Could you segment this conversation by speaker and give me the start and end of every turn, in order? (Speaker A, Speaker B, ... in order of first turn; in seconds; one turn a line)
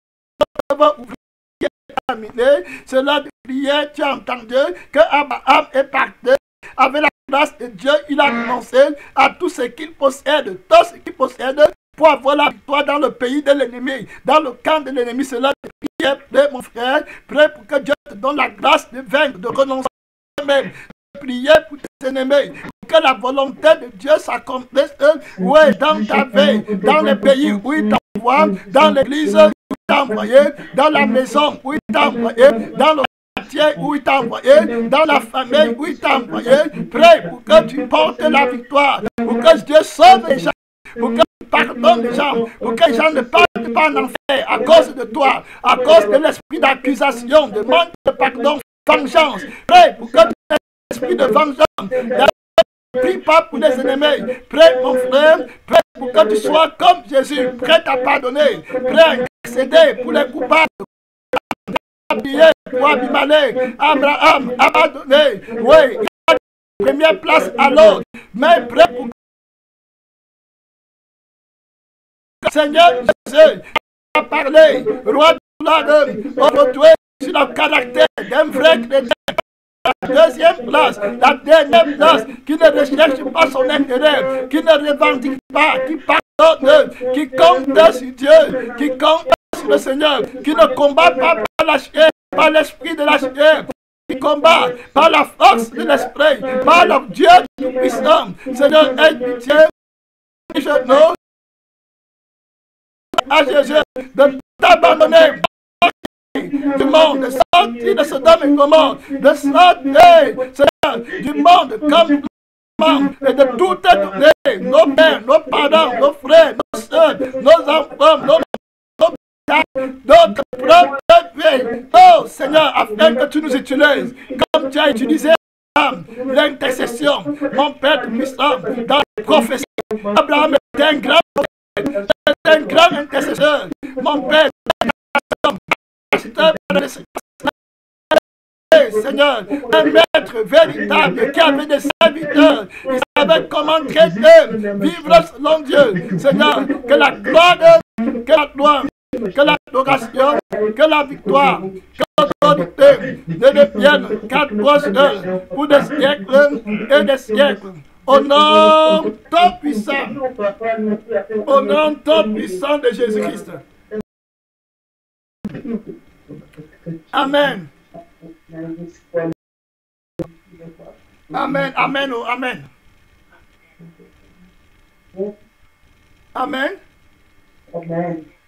Speaker A: 0.4-52.3
Speaker B: 25.4-29.4
Speaker B: 29.9-30.3
Speaker B: 30.9-31.2
Speaker B: 31.9-32.8
Speaker B: 34.5-50.3
Speaker B: 50.9-52.3
Speaker A: 53.0-69.1
Speaker B: 53.0-55.4
Speaker B: 56.0-56.6
Speaker B: 57.3-60.5
Speaker B: 62.1-64.8
Speaker B: 65.5-66.1
Speaker B: 66.8-69.1
Speaker A: 72.4-99.7
Speaker B: 72.7-73.1
Speaker B: 74.5-75.2
Speaker B: 75.8-76.8
Speaker B: 77.4-78.9
Speaker B: 80.1-85.9
Speaker B: 86.6-91.4
Speaker B: 94.2-97.0
Speaker B: 97.6-99.6
Speaker A: 100.5-101.2
Speaker B: 100.5-101.0
Speaker A: 103.2-112.2
Speaker B: 103.4-105.3
Speaker B: 106.5-112.2
Speaker A: 112.8-137.5
Speaker B: 112.8-116.2
Speaker B: 116.7-118.3
Speaker B: 120.3-120.9
Speaker B: 121.5-125.3
Speaker B: 126.1-131.1
Speaker B: 131.8-133.4
Speaker B: 134.0-134.9
Speaker A: 138.1-160.2
Speaker B: 138.7-140.0
Speaker B: 140.6-148.2
Speaker B: 149.0-164.0
Speaker A: 161.4-163.6
Speaker B: 165.5-169.3
Speaker A: 167.1-167.7
Speaker B: 170.2-172.1
Speaker A: 171.3-172.7
Speaker A: 176.3-176.8
Speaker B: 177.7-178.2